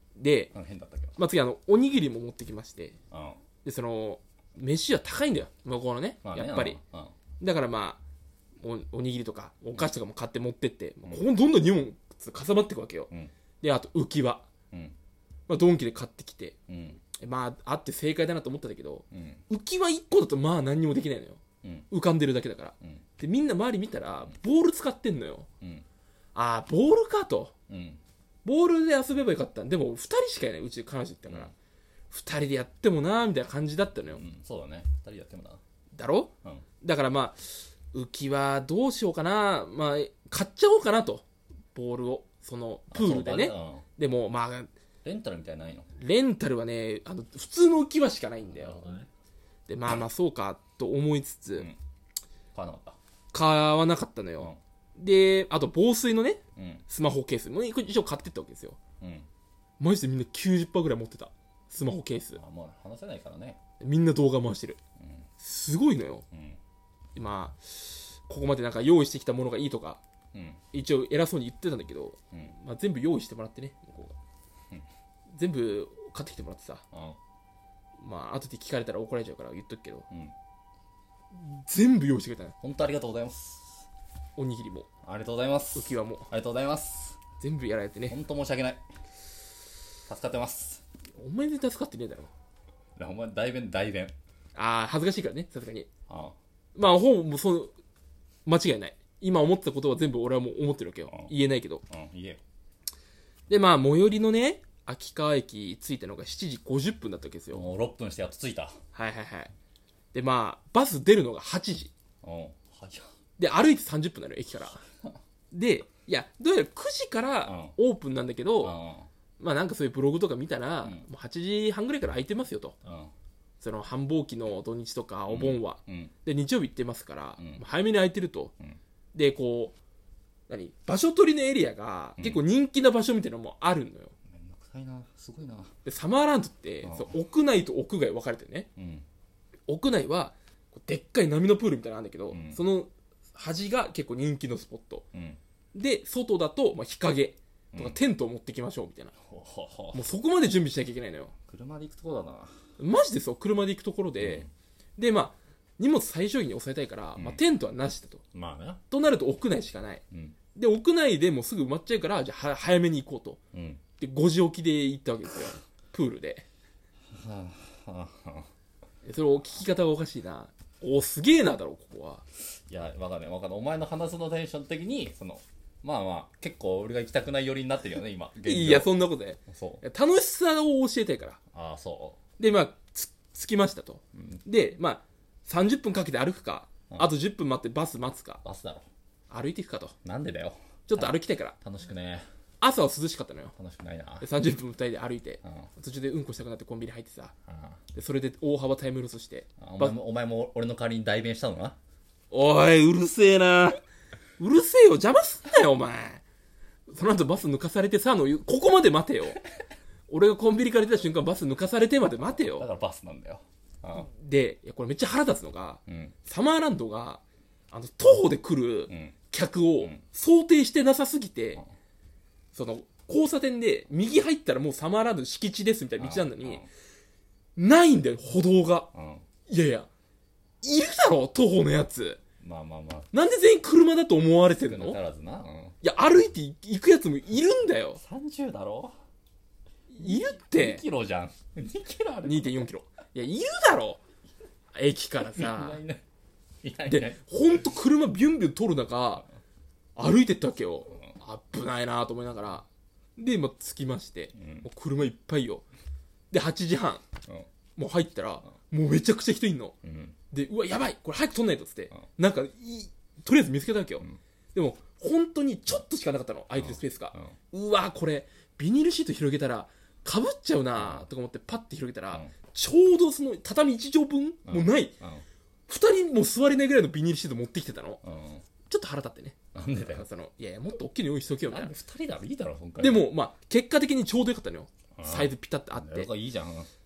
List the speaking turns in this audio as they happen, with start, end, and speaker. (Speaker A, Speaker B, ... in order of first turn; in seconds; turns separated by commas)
Speaker A: 0.2-0.5, Speaker B: 0.5-1.2, Speaker A: 1.2-3.0, Speaker B: 3.1-3.4, Speaker A: 3.6-6.8, Speaker B: 6.2-7.2, Speaker A: 7.4-8.0, Speaker A: 8.6-13.1, Speaker A: 13.6-14.5, Speaker A: 15.5-16.6, Speaker B: 16.7-17.0, Speaker A: 17.1-25.5, Speaker B: 19.1-19.4, Speaker B: 21.6-21.9, Speaker A: 26.4-27.5, Speaker B: 27.7-28.0, Speaker A: 28.4-31.5, Speaker B: 31.3-31.5, Speaker A: 32.1-34.2, Speaker B: 34.1-35.6, Speaker A: 35.9-44.7, Speaker B: 42.9-43.9, Speaker B: 45.0-45.9, Speaker A: 46.0-48.9, Speaker B: 48.5-49.1, Speaker A: 49.7-51.7, Speaker B: 52.5-53.0, Speaker A: 53.3-58.8, Speaker B: 56.6-56.8, Speaker B: 59.0-59.3, Speaker A: 59.8-62.4, Speaker B: 62.4-63.6, Speaker A: 63.8-64.8, Speaker B: 65.0-65.3, Speaker A: 65.4-66.2, Speaker B: 66.3-66.6, Speaker A: 67.2-70.0, Speaker B: 70.3-70.6, Speaker A: 70.7-74.2, Speaker A: 75.3-76.8, Speaker B: 76.9-77.2, Speaker A: 78.0-80.1, Speaker B: 80.1-80.3, Speaker A: 81.3-82.5, Speaker B: 82.6-83.9, Speaker A: 84.4-84.9, Speaker B: 85.0-87.2, Speaker A: 85.8-86.3, Speaker A: 87.4-88.2, Speaker B: 88.1-88.8, Speaker B: 90.1-90.8, Speaker A: 91.2-92.3, Speaker B: 93.0-94.2, Speaker A: 94.5-95.9, Speaker B: 96.1-96.4, Speaker A: 96.8-97.7, Speaker A: 98.5-101.8, Speaker B: 101.9-102.4, Speaker A: 103.5-107.7, Speaker B: 107.5-108.8, Speaker A: 108.9-109.5, Speaker A: 110.1-111.9, Speaker B: 112.2-113.1, Speaker A: 113.4-114.8, Speaker A: 115.5-118.8, Speaker B: 117.4-117.8, Speaker B: 118.6-119.1, Speaker A: 119.4-122.8, Speaker B: 122.8-123.1, Speaker A: 123.6-128.5, Speaker B: 125.3-126.1, Speaker B: 127.4-127.6, Speaker A: 129.1-129.8, Speaker A: 130.5-134.1, Speaker B: 134.3-135.7, Speaker A: 135.8-138.7, Speaker B: 136.8-137.1, Speaker B: 138.8-139.1, Speaker A: 139.7-145.1, Speaker B: 142.3-142.6, Speaker B: 145.1-145.4, Speaker A: 145.7-149.1, Speaker B: 147.7-148.0, Speaker B: 149.3-150.1, Speaker A: 149.9-151.3, Speaker B: 151.5-152.5, Speaker A: 152.8-158.2, Speaker B: 154.2-154.5, Speaker B: 158.3-158.8, Speaker A: 158.9-160.0, Speaker B: 160.1-160.4, Speaker A: 160.6-163.4, Speaker B: 163.5-163.8, Speaker A: 164.0-166.5, Speaker B: 167.1-168.5, Speaker A: 169.1-172.2, Speaker B: 172.7-178.9, Speaker A: 178.4-181.4, Speaker B: 179.5-179.8, Speaker B: 181.5-182.2, Speaker A: 182.4-188.4, Speaker B: 184.2-184.4, Speaker B: 188.4-188.9, Speaker A: 189.3-189.9, Speaker B: 190.0-192.3, Speaker A: 190.9-191.6, Speaker A: 192.6-193.5, Speaker B: 193.6-194.3, Speaker A: 194.2-197.3, Speaker B: 195.4-195.7, Speaker B: 197.5-197.8, Speaker A: 197.9-200.0, Speaker B: 199.6-201.8, Speaker A: 202.3-203.8, Speaker A: 204.4-206.2, Speaker A: 206.9-209.4, Speaker A: 210.1-212.7, Speaker B: 212.3-214.1, Speaker A: 213.9-221.6, Speaker B: 215.9-216.2, Speaker B: 218.9-219.2, Speaker A: 222.5-226.7, Speaker B: 226.0-226.7, Speaker A: 227.6-228.9, Speaker B: 228.9-229.3, Speaker A: 229.5-229.9, Speaker A: 230.6-232.2, Speaker B: 232.4-233.1, Speaker A: 233.1-235.0, Speaker B: 234.6-235.8, Speaker A: 235.8-238.0, Speaker B: 238.0-238.9, Speaker A: 239.9-240.8, Speaker B: 240.0-242.7, Speaker A: 242.2-244.0, Speaker A: 244.7-245.8, Speaker B: 245.2-246.0, Speaker B: 246.6-247.2, Speaker A: 246.9-249.3, Speaker A: 250.0-252.7, Speaker A: 253.2-255.7, Speaker B: 254.4-254.7, Speaker A: 256.3-257.0, Speaker A: 257.8-259.8, Speaker B: 259.8-260.2, Speaker A: 260.3-274.9, Speaker B: 266.6-267.4, Speaker B: 270.8-271.1, Speaker B: 274.5-275.2, Speaker A: 275.7-278.0, Speaker B: 278.0-278.4, Speaker A: 278.7-281.7, Speaker B: 279.6-280.1, Speaker B: 281.5-283.1, Speaker A: 282.8-286.1, Speaker B: 285.0-286.7